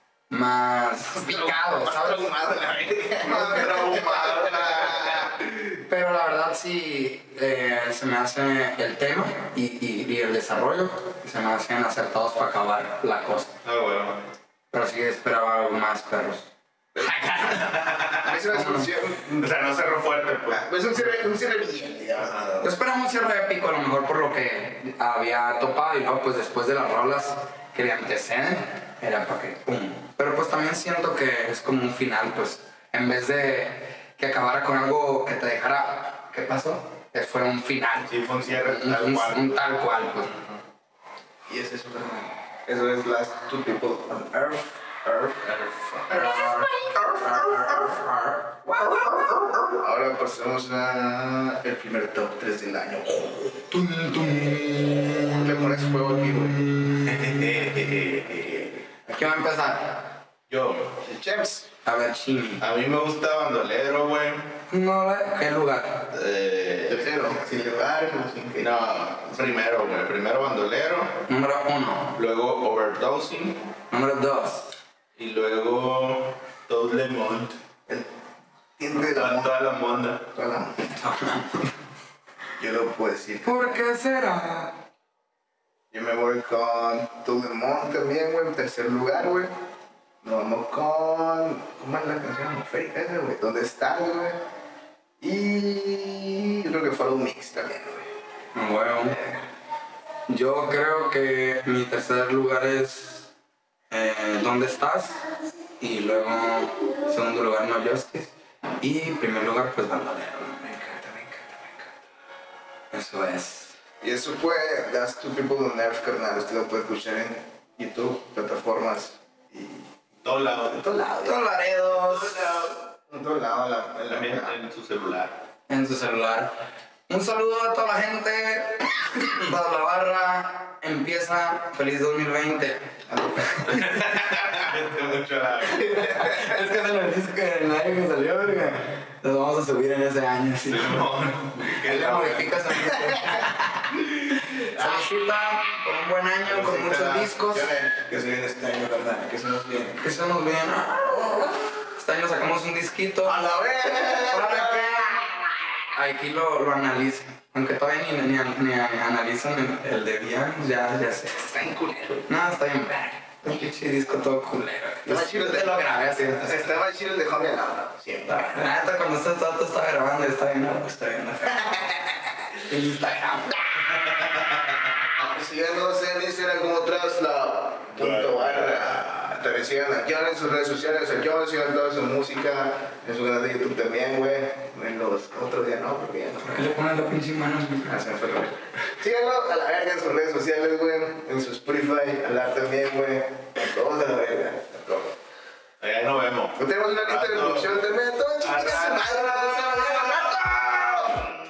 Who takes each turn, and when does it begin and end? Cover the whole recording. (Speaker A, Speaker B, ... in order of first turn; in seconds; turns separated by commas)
Speaker A: 0.3-2.3, Speaker B: 1.1-5.3, Speaker C: 3.2-5.4, Speaker A: 5.9-13.5, Speaker C: 13.6-14.2, Speaker A: 14.7-17.9, Speaker C: 17.7-18.3, Speaker B: 18.2-19.5, Speaker A: 18.5-18.9, Speaker C: 19.2-20.7, Speaker B: 20.5-22.6, Speaker C: 22.2-22.6, Speaker A: 22.6-40.3, Speaker C: 38.1-39.5, Speaker C: 40.3-40.6, Speaker B: 41.5-47.9, Speaker A: 46.1-48.3, Speaker B: 48.6-53.7, Speaker A: 53.7-57.5, Speaker B: 55.2-56.7, Speaker C: 57.0-58.8, Speaker A: 59.1-59.9, Speaker C: 60.5-61.0, Speaker B: 61.0-61.7, Speaker A: 61.9-62.6, Speaker C: 62.6-64.5, Speaker A: 64.7-66.1, Speaker C: 66.1-67.0, Speaker B: 66.9-68.7, Speaker C: 68.6-71.1, Speaker A: 71.3-72.1, Speaker C: 72.1-73.6, Speaker A: 73.9-74.7, Speaker C: 75.2-77.5, Speaker B: 78.8-79.6, Speaker C: 79.1-80.2, Speaker B: 80.3-80.9, Speaker A: 80.9-81.7, Speaker B: 82.6-83.8, Speaker A: 83.4-84.8, Speaker B: 85.9-89.5, Speaker B: 90.2-94.4, Speaker B: 95.2-98.1, Speaker A: 98.5-99.2, Speaker B: 99.0-99.4, Speaker A: 100.3-103.3, Speaker A: 103.9-105.2, Speaker A: 105.8-110.6, Speaker B: 110.6-111.9, Speaker A: 112.9-113.7, Speaker B: 114.0-119.8, Speaker C: 120.2-120.8, Speaker B: 120.4-121.4, Speaker A: 121.2-122.7, Speaker B: 123.1-124.6, Speaker C: 124.1-125.4, Speaker A: 125.7-126.5, Speaker A: 127.1-132.8, Speaker B: 133.1-134.5, Speaker C: 133.7-136.0, Speaker B: 135.7-136.6, Speaker A: 135.9-147.7, Speaker C: 140.7-142.7, Speaker B: 142.9-143.5, Speaker B: 144.4-145.1, Speaker C: 146.4-147.0, Speaker B: 146.7-150.0, Speaker A: 149.9-153.4, Speaker B: 151.1-151.5, Speaker B: 153.2-155.3, Speaker A: 154.3-161.5, Speaker B: 161.4-162.3, Speaker A: 162.3-166.7, Speaker B: 165.1-168.7, Speaker A: 168.3-171.5, Speaker B: 171.4-172.3, Speaker A: 172.7-173.6, Speaker B: 175.2-186.7, Speaker C: 178.0-179.0, Speaker A: 186.4-187.9, Speaker B: 187.8-195.0, Speaker C: 195.8-197.7, Speaker B: 196.6-201.2, Speaker C: 198.5-199.5, Speaker A: 199.8-200.2